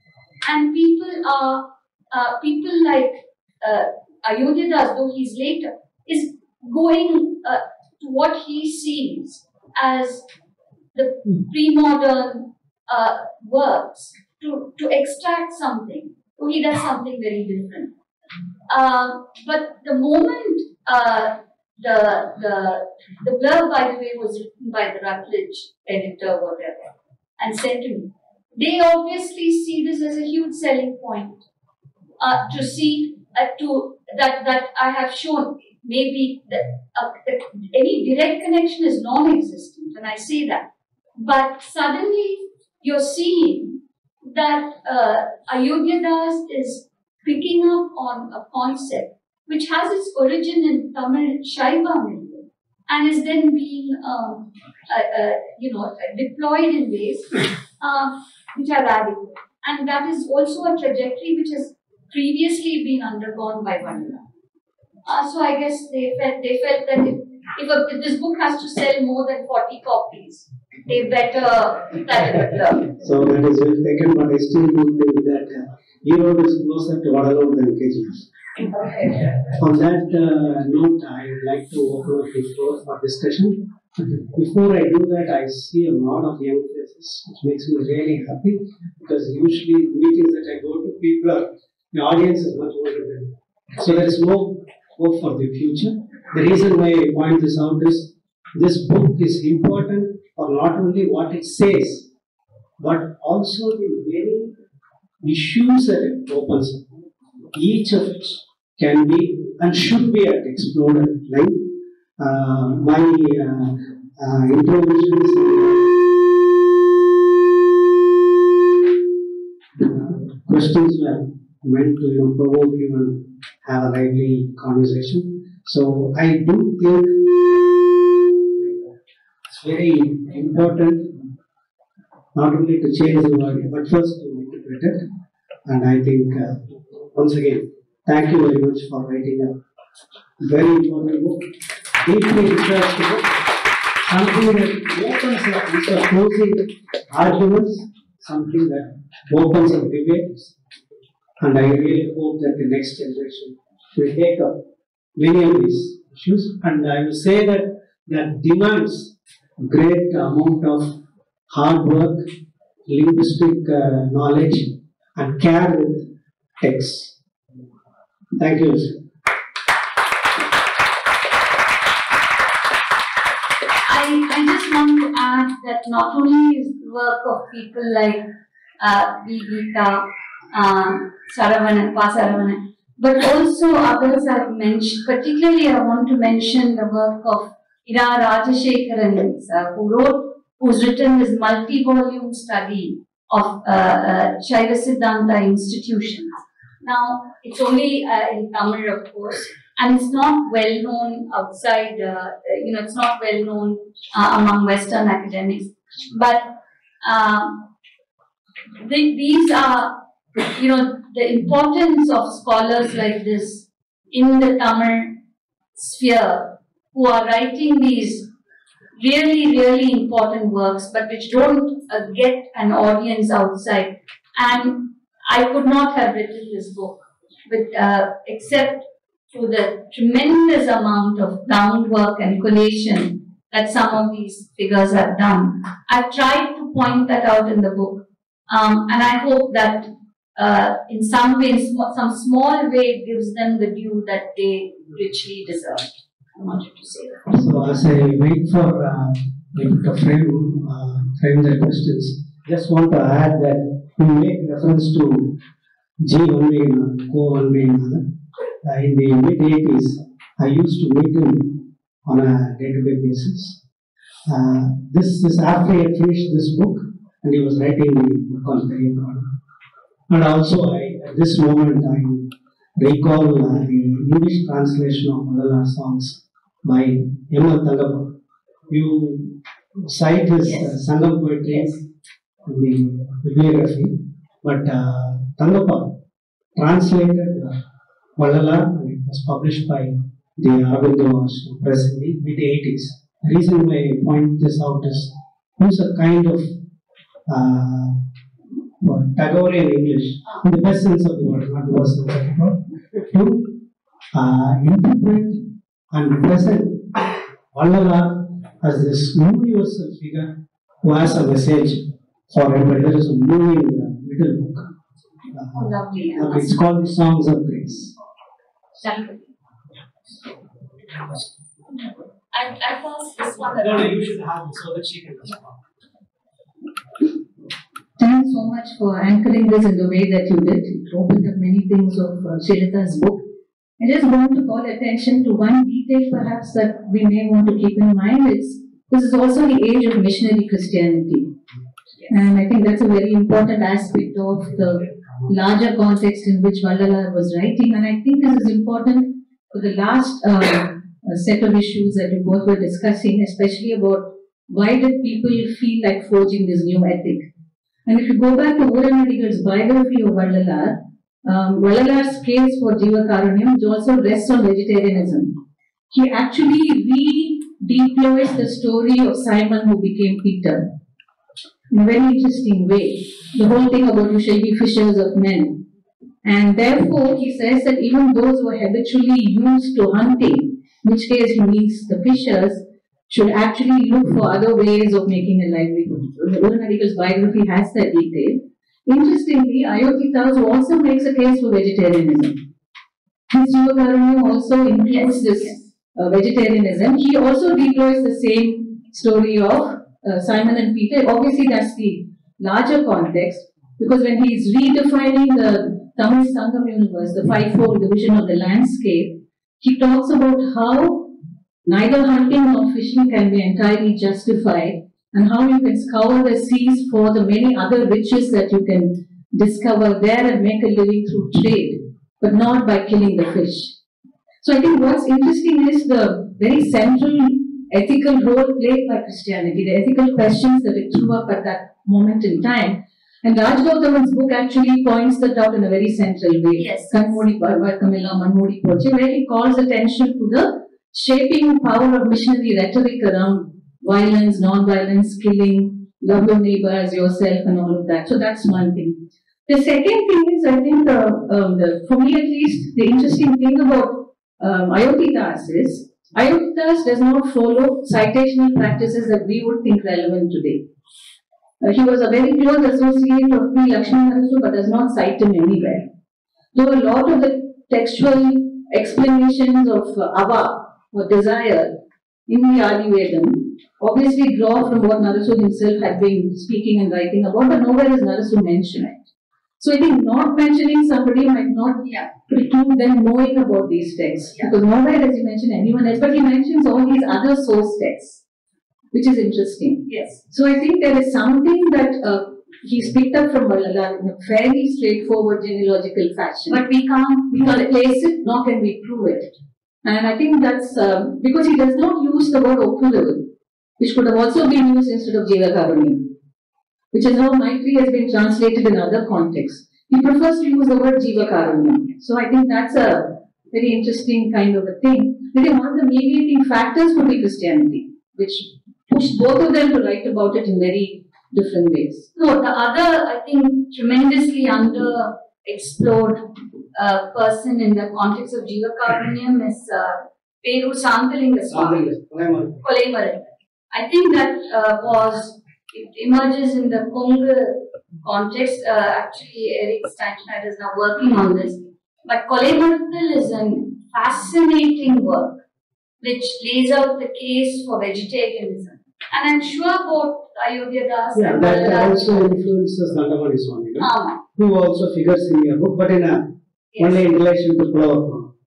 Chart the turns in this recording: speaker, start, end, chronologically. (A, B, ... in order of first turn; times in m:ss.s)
0:00.4-0:10.3 A
0:10.9-0:17.9 A
0:18.7-0:31.4 A
0:32.2-1:04.2 A
1:05.0-1:12.9 A
1:13.0-1:18.3 B
1:18.7-1:19.3 A
1:19.4-1:42.1 B
1:42.8-1:44.6 B
1:45.2-1:47.0 B
1:47.5-1:55.9 B
1:59.7-2:07.3 B
2:08.6-2:11.3 B
2:12.3-2:15.1 B
2:15.7-2:19.6 B
2:20.4-2:21.5 B
2:22.0-2:23.4 B
2:24.1-2:30.6 B
2:31.4-2:34.6 B
2:35.2-2:41.0 B
2:41.5-2:42.3 B
2:42.9-2:46.1 B
2:46.6-2:47.2 B
2:48.4-2:49.0 B
2:53.9-2:58.3 A
2:58.8-3:27.7 A
3:28.8-3:35.2 A
3:35.7-3:38.3 A
3:39.0-4:07.3 A
4:07.3-4:15.4 B
4:16.0-4:18.0 B
4:18.6-4:23.6 B
4:24.3-4:29.3 B
4:30.1-4:38.2 B
4:38.7-4:41.8 B
4:40.4-4:40.7 A
4:41.5-4:41.8 A
4:42.4-4:46.0 B
4:46.6-4:47.6 B
4:48.2-4:56.5 B
4:57.3-4:58.0 B
4:58.8-5:03.5 B
5:04.1-5:14.7 B
5:15.3-5:18.0 B
5:15.6-5:16.6 A
5:18.8-5:19.3 A
5:21.0-5:21.3 B
5:22.3-5:24.1 A
5:23.5-5:25.6 B
5:28.0-5:33.2 C
5:33.8-5:41.3 C
5:42.1-5:57.3 C
5:57.9-6:05.4 C
6:05.9-6:10.7 C
6:11.7-6:15.6 C
6:16.2-6:32.4 C
6:33.3-6:51.1 C
6:34.9-6:35.6 A
6:51.6-7:03.8 C
7:04.4-7:40.6 C
7:16.6-7:17.3 A
7:41.6-7:45.9 C
7:46.5-7:59.0 C
7:59.6-8:08.2 C
8:01.8-8:02.1 A
8:08.9-8:16.6 C
8:09.9-8:10.2 A
8:16.5-8:17.9 A
8:17.3-8:23.3 C
8:23.8-8:26.1 C
8:26.9-8:42.1 C
8:42.2-8:51.9 A
8:51.5-8:52.6 B
8:52.6-9:05.4 A
9:06.0-9:12.4 A
9:11.2-9:18.3 B
9:13.8-9:14.2 A
9:16.7-9:17.0 A